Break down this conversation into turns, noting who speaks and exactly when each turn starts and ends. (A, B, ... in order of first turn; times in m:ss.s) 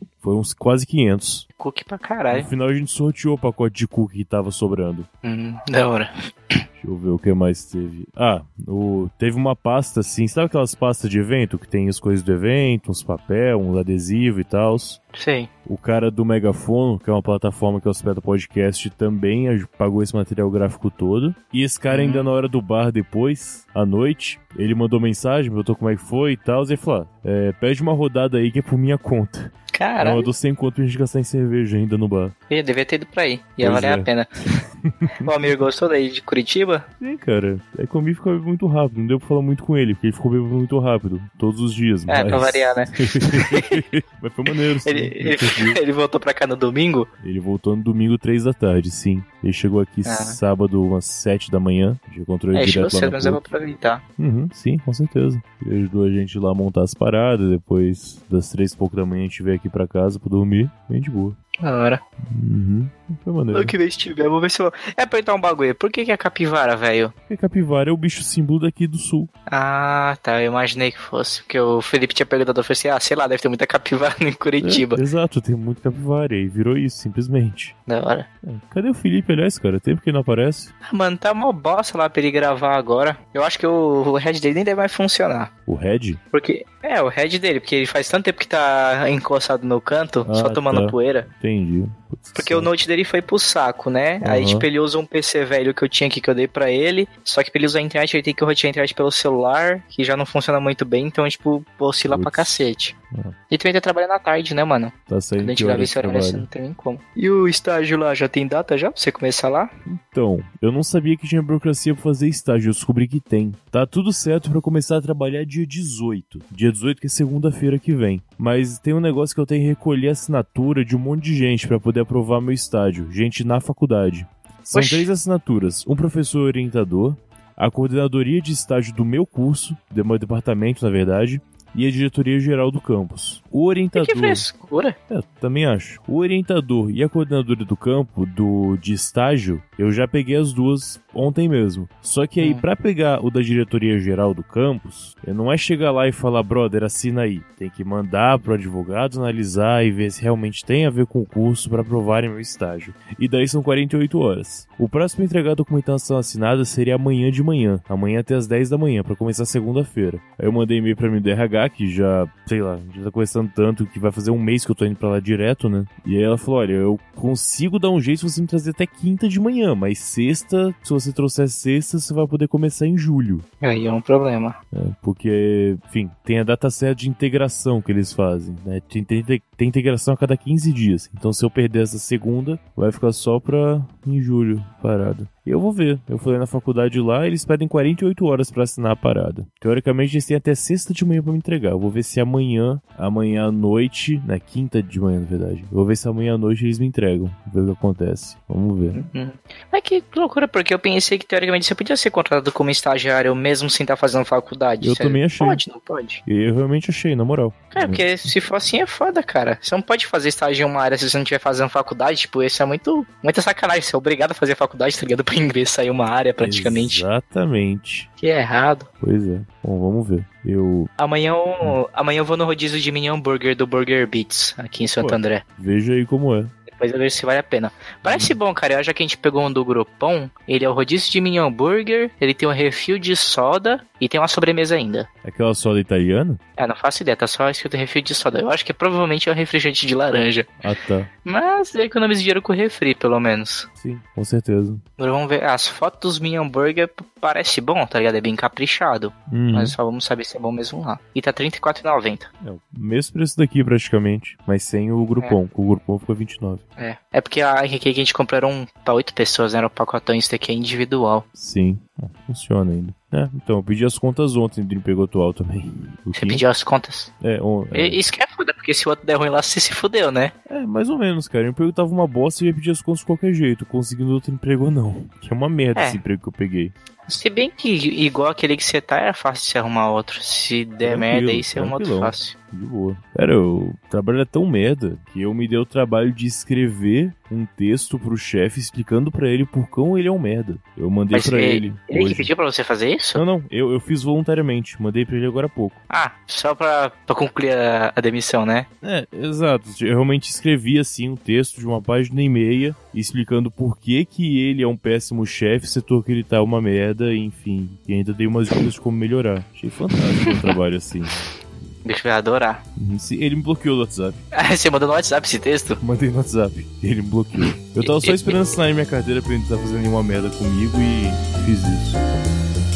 0:00.2-0:01.4 A
0:01.6-0:02.5 B
0:02.3-0:05.1 A
0:05.2-0:06.6 B
0:06.8-0:15.0 A
0:15.1-0:15.5 B
0:15.6-0:32.3 A
0:21.9-0:22.3 B
0:29.7-0:30.3 B
0:32.5-0:34.6 B
0:33.6-0:34.1 A
0:34.8-0:35.3 A
0:35.2-0:36.8 B
0:37.0-0:45.8 A
0:42.1-0:43.8 B
0:44.8-0:47.1 B
0:47.2-0:53.4 A
0:50.0-0:50.4 B
0:52.5-0:54.0 B
0:54.2-1:01.4 A
1:01.6-1:02.0 B
1:02.2-1:03.7 A
1:03.5-1:07.1 B
1:07.3-1:09.3 A
1:09.5-1:15.0 B
1:14.6-1:17.7 A
1:17.9-1:18.3 B
1:18.4-1:20.7 A
1:20.8-1:25.5 B
1:25.7-1:26.2 A
1:26.3-1:31.3 B
1:30.2-1:32.7 A
1:32.4-1:42.9 B
1:34.2-1:34.7 A
1:42.1-1:43.4 A
1:43.5-1:49.7 B
1:45.1-1:46.5 A
1:49.8-2:14.4 A
2:04.7-2:05.1 B
2:14.0-2:15.0 B
2:15.1-2:53.4 A
2:53.6-2:54.6 B
2:54.7-3:19.0 A
3:18.9-3:26.2 B
3:24.8-3:25.6 A
3:26.2-3:28.0 A
3:27.7-3:37.0 B
3:36.4-3:38.1 A
3:38.2-3:38.9 B
3:39.0-3:40.9 A
3:41.0-3:45.4 B
3:45.0-3:46.5 A
3:46.7-3:55.1 B
3:48.0-3:48.4 A
3:55.2-3:56.4 A
3:56.6-4:00.5 B
4:00.6-4:01.1 A
4:01.2-4:03.7 B
4:03.8-4:04.8 A
4:05.0-4:12.3 B
4:09.3-4:09.7 A
4:12.4-4:16.6 A
4:16.8-4:21.2 B
4:21.3-4:26.4 A
4:26.2-4:27.1 B
4:27.2-4:28.0 A
4:27.7-4:30.3 B
4:30.5-4:36.7 A
4:37.1-4:42.3 B
4:40.8-4:52.3 A
4:51.1-4:53.2 B
4:53.1-4:55.8 A
4:55.9-4:58.7 B
4:58.8-5:11.3 A
5:10.2-5:10.5 B
5:11.8-5:12.6 B
5:12.8-5:14.2 A
5:14.3-5:15.8 B
5:15.8-5:22.0 A